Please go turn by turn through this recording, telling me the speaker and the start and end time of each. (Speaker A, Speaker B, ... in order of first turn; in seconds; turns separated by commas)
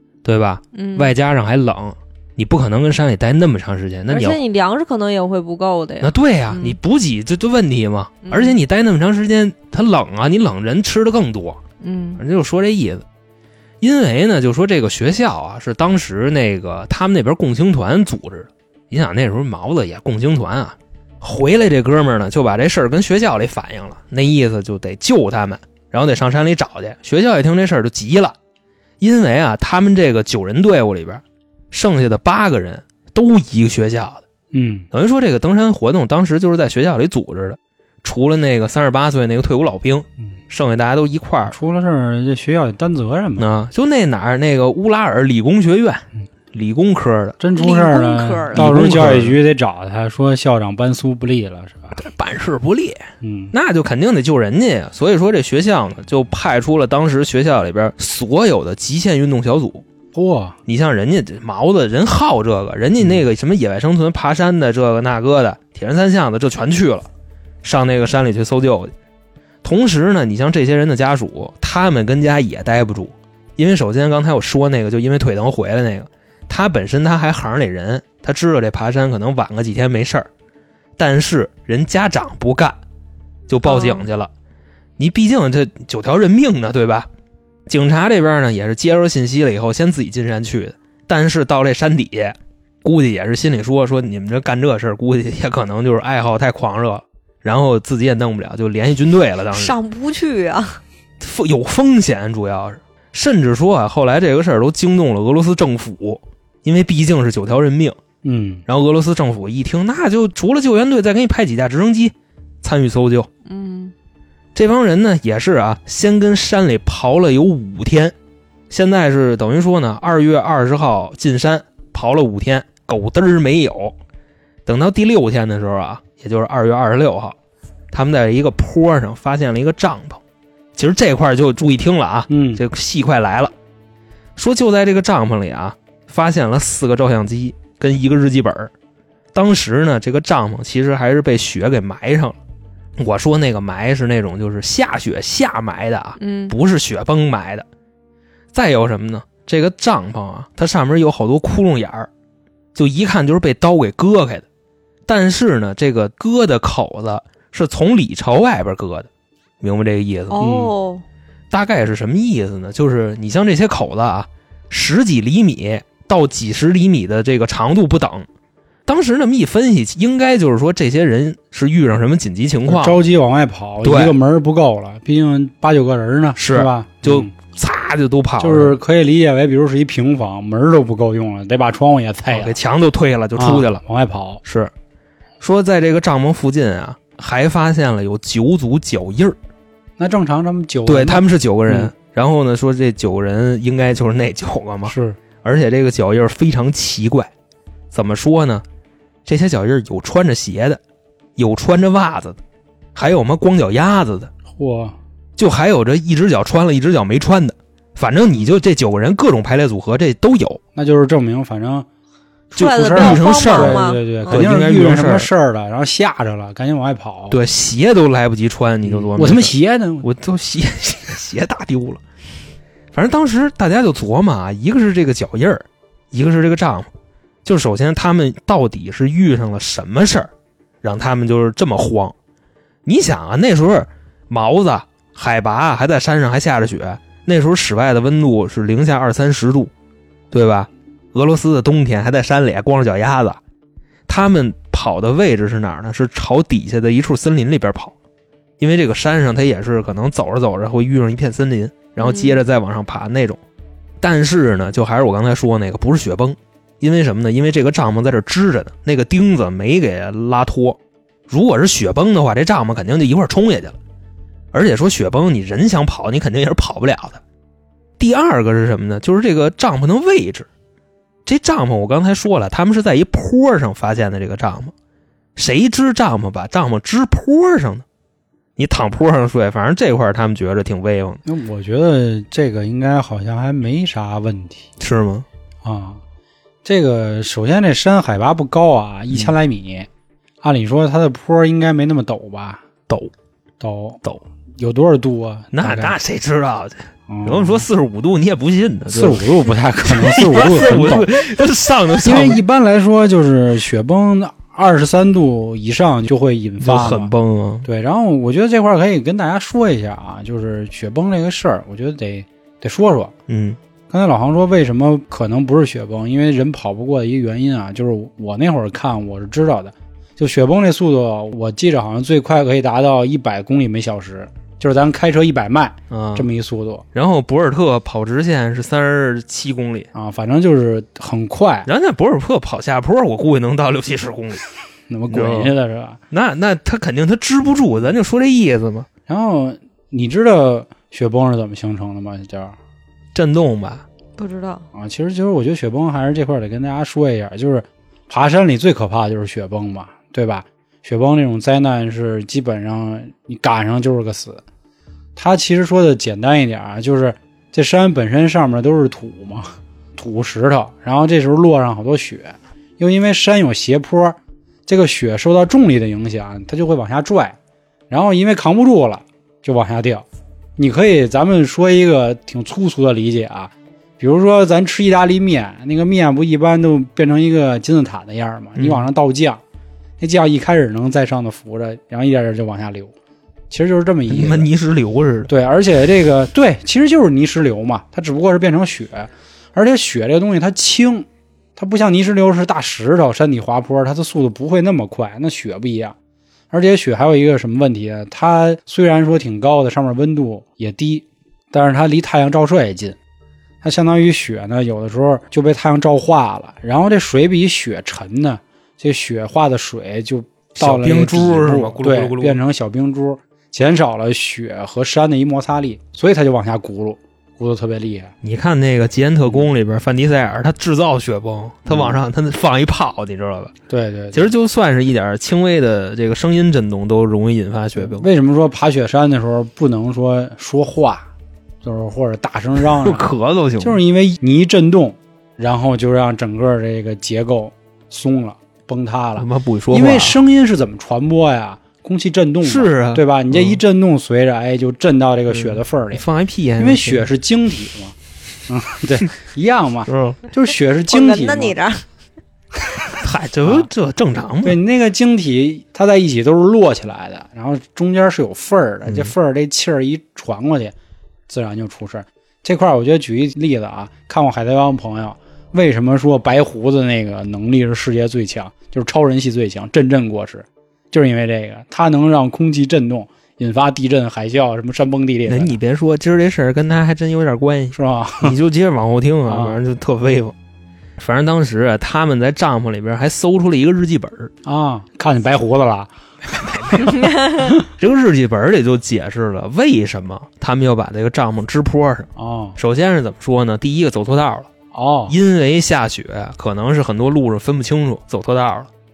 Speaker A: 0.2-4.4, Speaker B: 0.7-1.1, Speaker B: 4.1-6.8, Speaker A: 6.0-11.6, Speaker B: 8.2-8.6, Speaker B: 11.8-12.2, Speaker A: 12.2-13.0, Speaker A: 13.8-28.4, Speaker A: 29.0-34.2, Speaker C: 34.5-34.9, Speaker A: 34.9-41.5, Speaker C: 41.5-43.5, Speaker A: 43.4-47.4, Speaker C: 47.4-52.0, Speaker B: 47.5-48.8, Speaker A: 48.5-49.4, Speaker A: 51.9-59.8, Speaker C: 53.2-53.5, Speaker C: 60.1-60.6, Speaker A: 60.7-67.1, Speaker A: 67.6-68.9, Speaker A: 69.6-80.3, Speaker A: 81.0-82.8, Speaker A: 83.5-84.3, Speaker B: 83.6-84.1, Speaker A: 85.0-87.1, Speaker A: 87.7-99.7, Speaker B: 99.5-100.8, Speaker A: 101.2-108.0, Speaker C: 108.2-108.6, Speaker A: 108.7-113.3, Speaker B: 113.5-113.9, Speaker A: 114.5-118.1, Speaker A: 118.7-124.0, Speaker A: 124.7-127.3, Speaker A: 127.9-130.2, Speaker A: 130.7-133.5, Speaker C: 132.3-132.6, Speaker A: 134.3-138.7, Speaker A: 139.3-142.4, Speaker A: 143.0-147.7, Speaker B: 146.2-146.5, Speaker A: 148.5-152.1, Speaker A: 152.7-154.4, Speaker A: 155.1-159.1, Speaker A: 159.6-160.7, Speaker B: 160.3-161.0, Speaker A: 161.5-168.3, Speaker A: 168.9-173.0, Speaker C: 172.7-177.3, Speaker A: 173.8-174.2, Speaker A: 176.3-178.8, Speaker C: 178.4-182.6, Speaker A: 182.3-183.8, Speaker C: 183.3-184.4, Speaker A: 184.4-184.7, Speaker A: 185.4-189.4, Speaker C: 190.0-191.9, Speaker A: 190.8-197.3, Speaker C: 194.8-195.2, Speaker A: 197.9-198.6, Speaker A: 199.2-200.8, Speaker A: 201.4-202.4, Speaker A: 202.9-204.3, Speaker C: 204.6-205.0, Speaker A: 205.4-210.6, Speaker C: 210.8-211.9, Speaker B: 212.5-214.4, Speaker C: 212.5-217.4, Speaker A: 212.6-215.3, Speaker A: 217.3-222.0, Speaker C: 218.8-220.1, Speaker A: 222.9-226.9, Speaker A: 227.4-230.3, Speaker A: 230.8-232.1, Speaker A: 232.8-239.7, Speaker A: 240.3-243.4, Speaker A: 244.1-247.9, Speaker A: 248.6-253.4, Speaker B: 252.0-252.4, Speaker A: 254.0-263.8, Speaker A: 264.5-267.2, Speaker A: 268.0-270.5, Speaker A: 271.2-274.7, Speaker A: 275.4-277.8, Speaker A: 278.6-281.2, Speaker C: 281.2-284.7, Speaker A: 284.8-285.2, Speaker C: 285.6-286.0, Speaker C: 286.6-289.9, Speaker C: 290.4-292.6, Speaker C: 293.6-294.0, Speaker C: 294.6-295.9, Speaker A: 295.5-299.3, Speaker C: 297.1-297.6, Speaker C: 298.9-301.2, Speaker A: 299.8-302.4, Speaker C: 302.0-307.1, Speaker A: 306.6-307.6, Speaker C: 307.6-313.1, Speaker A: 313.3-313.6, Speaker C: 313.9-326.9, Speaker A: 325.9-326.3, Speaker A: 326.9-329.9, Speaker C: 329.9-331.7, Speaker A: 331.6-334.4, Speaker C: 334.9-336.0, Speaker A: 335.1-335.5, Speaker A: 336.1-338.9, Speaker C: 339.1-342.6, Speaker A: 343.1-343.8, Speaker B: 344.2-344.6, Speaker C: 344.7-354.4, Speaker C: 355.1-367.4, Speaker C: 367.9-370.0, Speaker C: 370.6-379.4, Speaker A: 378.6-378.9, Speaker C: 380.0-382.9, Speaker C: 383.5-384.5, Speaker A: 384.1-385.3, Speaker C: 385.3-395.9, Speaker C: 396.5-403.0, Speaker C: 403.6-418.1, Speaker A: 410.6-412.4, Speaker A: 418.2-423.5, Speaker C: 421.7-422.0, Speaker C: 423.7-424.3, Speaker A: 424.1-428.1, Speaker C: 427.8-431.1, Speaker C: 431.6-433.1, Speaker A: 432.6-433.8, Speaker C: 433.6-446.0, Speaker A: 439.2-440.2, Speaker A: 442.4-443.6, Speaker A: 445.3-447.1, Speaker C: 446.6-447.9, Speaker C: 448.5-451.6, Speaker A: 449.9-450.2, Speaker B: 450.9-451.8, Speaker A: 453.0-454.6, Speaker C: 454.4-460.7, Speaker A: 458.9-459.1, Speaker C: 461.3-475.6, Speaker A: 475.3-480.3, Speaker C: 477.7-478.3, Speaker C: 479.3-479.6, Speaker A: 481.0-484.3, Speaker C: 484.4-485.9, Speaker A: 486.3-487.1, Speaker C: 486.4-487.5, Speaker B: 487.0-487.4, Speaker A: 487.7-494.5, Speaker C: 492.1-492.6, Speaker C: 494.7-495.1, Speaker A: 495.1-498.7